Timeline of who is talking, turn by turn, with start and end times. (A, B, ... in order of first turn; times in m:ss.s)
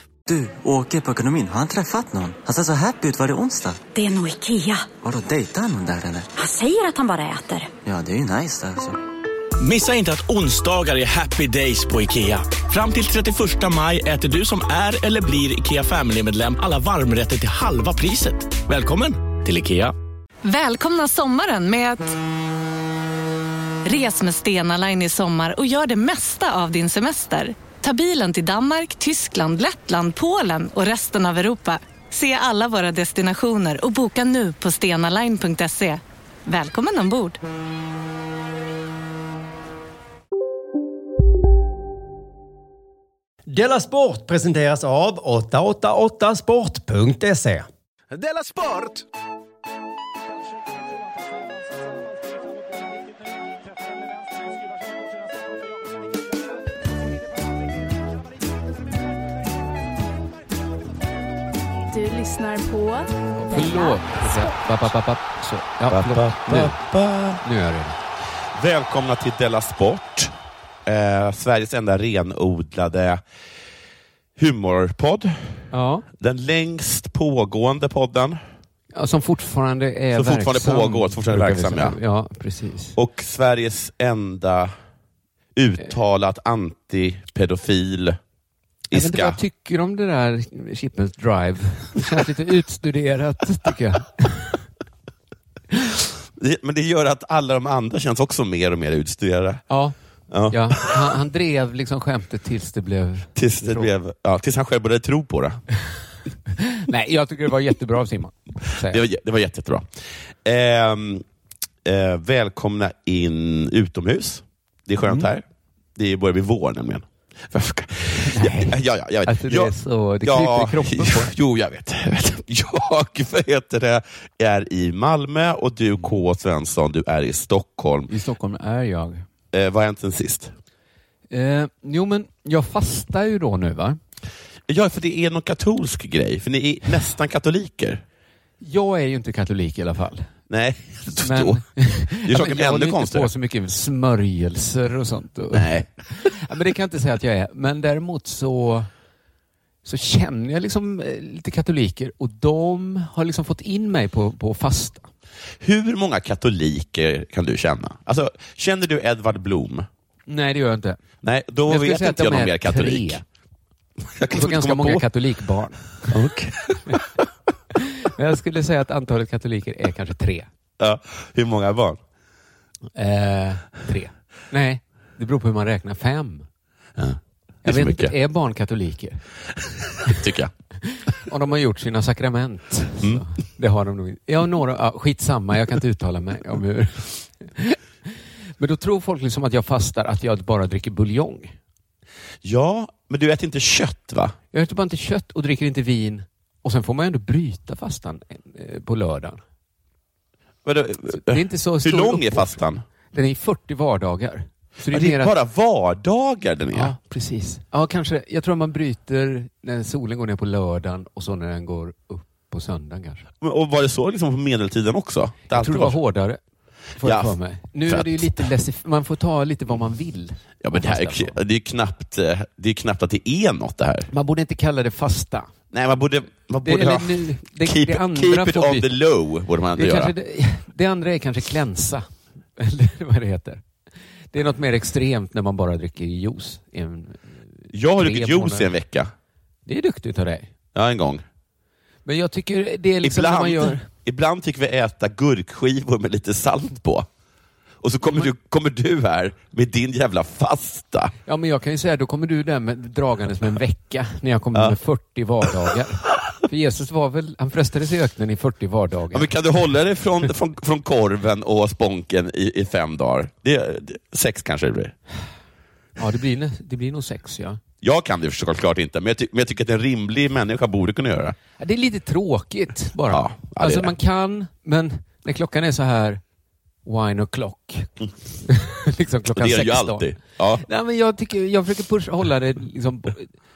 0:00.3-0:03.8 A
0:03.9-0:04.9 B
0:04.9-0:06.3 A
0:06.4-0:07.7 B
0:07.8-0:09.0 A
0:09.6-0:19.9 C
0:20.4-0:22.2 D
0:23.8-0:37.4 D
0:43.5-0:47.7 E
0:48.1-0:49.0 C
1:01.9-1:04.6 F
1:03.4-1:06.8 G
1:05.9-1:07.4 H
1:07.4-1:08.0 G
1:08.5-1:10.3 H
1:10.8-1:13.2 H
1:14.4-1:15.6 H
1:15.7-1:16.0 G
1:16.2-1:18.4 H
1:18.9-1:23.0 G
1:20.1-1:22.0 H
1:23.0-1:24.7 H
1:25.6-1:28.2 H
1:28.9-1:29.4 H
1:28.9-1:34.6 G
1:36.4-1:39.6 H
1:39.7-1:39.9 G
1:40.3-1:41.0 H
1:40.5-1:43.9 G
1:43.3-1:45.6 H
1:46.6-1:49.0 G
1:48.8-1:49.9 H
1:50.4-1:51.2 H
1:51.8-1:55.4 H
1:56.0-2:08.1 H
1:58.3-2:01.3 G
2:08.1-2:09.2 G
2:09.5-2:10.5 H
2:11.3-2:14.0 G
2:14.7-2:18.0 H
2:18.6-2:20.3 G
2:20.5-2:21.6 H
2:21.2-2:28.9 G
2:22.2-2:23.3 H
2:25.5-2:25.9 H
2:29.8-2:35.1 G
2:35.6-2:39.9 H
2:40.3-2:41.0 G
2:41.2-2:43.2 H
2:41.6-2:43.2 G
2:44.2-2:45.0 H
2:44.3-2:46.2 G
2:46.1-2:47.0 H
2:47.7-2:50.5 G
2:50.8-2:52.0 H
2:52.9-2:56.4 G
2:57.0-2:58.1 H
2:57.6-2:59.2 G
3:00.0-3:00.5 H
3:00.8-3:11.6 G
3:12.4-3:14.4 H
3:14.5-3:19.4 G
3:20.6-3:22.8 H
3:21.2-3:22.6 G
3:23.1-3:25.3 G
3:24.9-3:26.9 H
3:26.7-3:33.2 G
3:33.4-3:36.0 H
3:35.5-3:36.4 G
3:37.0-3:41.3 G
3:37.0-3:38.4 H
3:40.6-3:44.1 H
3:44.1-3:45.5 G
3:45.7-3:50.1 H
3:46.6-3:48.9 G
3:49.7-3:53.6 G
3:54.3-3:58.7 G
3:57.7-3:59.1 H
3:59.6-4:00.5 G
4:00.7-4:01.2 H
4:02.0-4:03.9 G
4:03.0-4:07.1 H
4:07.8-4:11.1 H
4:08.0-4:08.3 G
4:11.2-4:19.3 G
4:19.1-4:24.9 H
4:26.0-4:27.6 G
4:27.8-4:31.4 H
4:31.6-4:36.2 G
4:33.1-4:33.9 H
4:36.8-4:43.3 G
4:39.3-4:40.6 H